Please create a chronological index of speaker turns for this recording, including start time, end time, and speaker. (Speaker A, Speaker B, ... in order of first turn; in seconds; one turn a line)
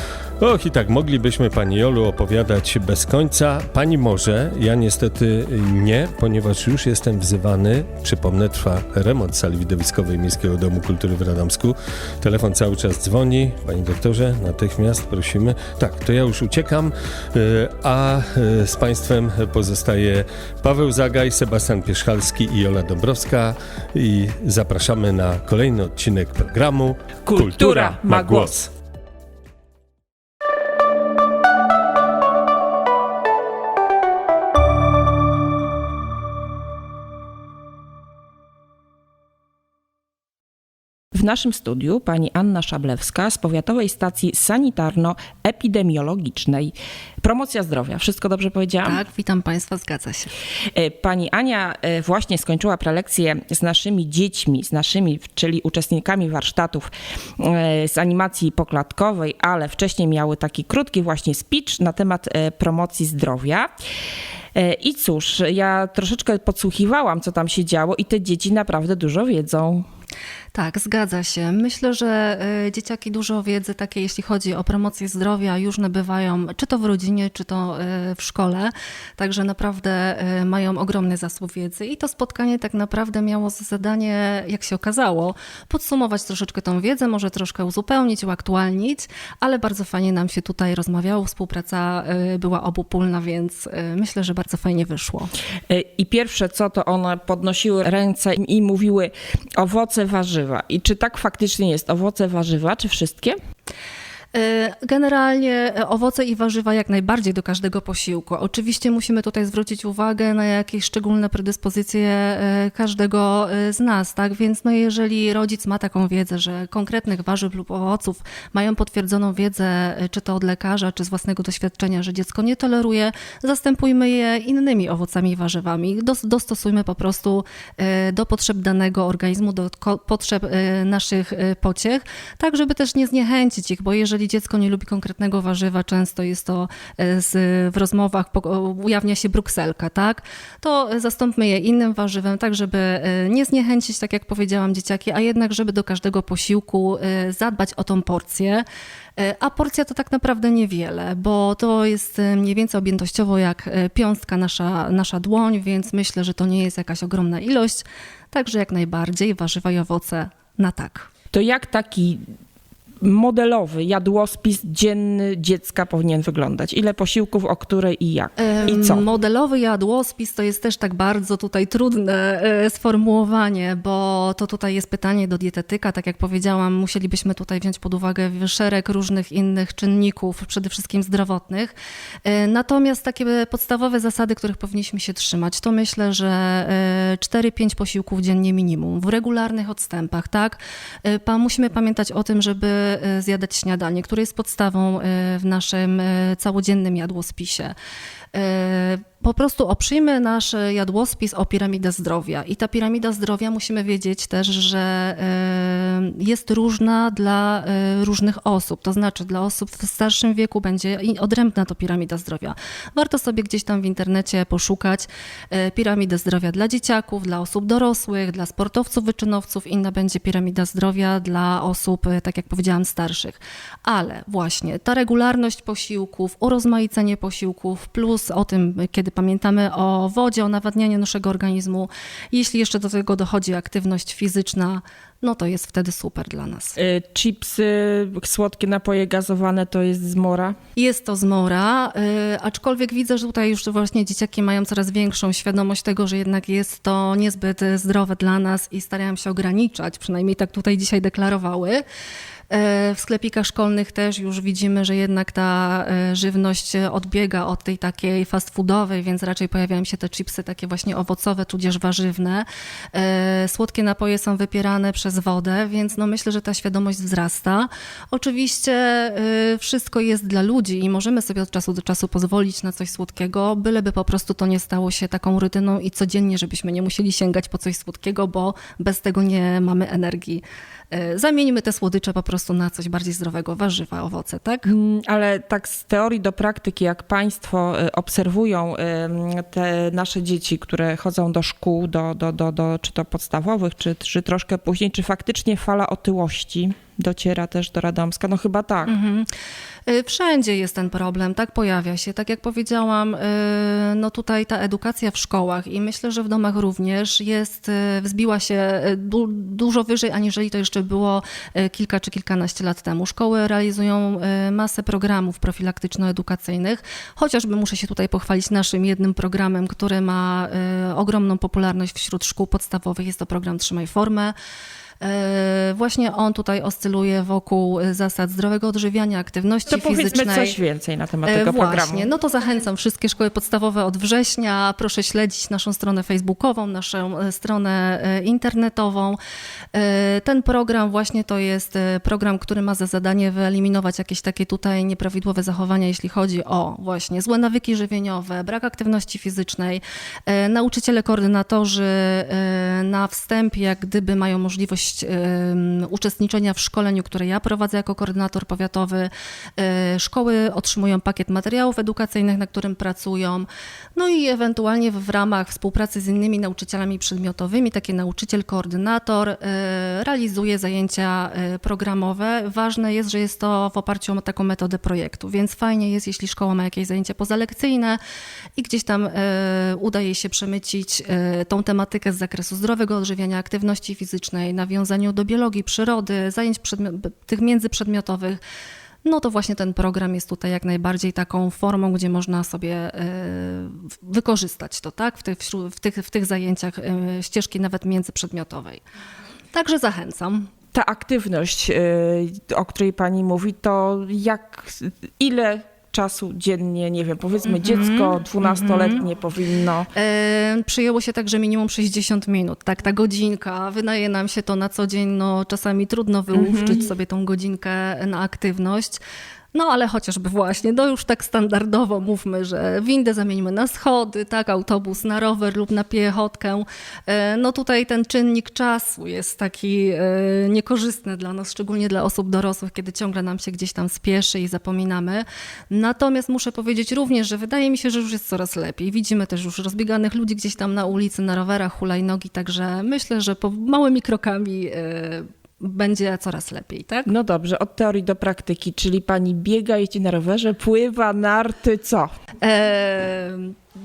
Speaker A: 0.4-28.6
Speaker B: 27.3-28.7
Speaker B: 41.1-49.0
Speaker C: 48.8-50.3
Speaker B: 50.7-63.7
Speaker B: 64.5-69.8
Speaker C: 70.5-95.3
Speaker B: 95.7-103.4
Speaker C: 104.3-148.7
Speaker C: 149.2-161.1
Speaker B: 161.3-162.2
Speaker B: 163.0-169.1
Speaker C: 168.4-197.8
Speaker C: 198.3-236.8
Speaker B: 236.8-240.6
Speaker C: 240.8-251.8
Speaker C: 252.5-284.7
Speaker B: 284.7-298.9
Speaker C: 298.9-299.3
Speaker C: 299.9-324.4
Speaker C: 325.0-330.6
Speaker B: 329.7-332.1
Speaker C: 331.2-339.2
Speaker C: 339.7-378.0
Speaker C: 378.6-388.4
Speaker C: 389.1-398.8
Speaker C: 399.5-400.5
Speaker B: 400.7-409.9
Speaker C: 407.5-409.0
Speaker C: 409.9-419.0
Speaker B: 416.3-416.9
Speaker C: 419.5-447.1
Speaker B: 447.1-452.1
Speaker C: 452.4-453.6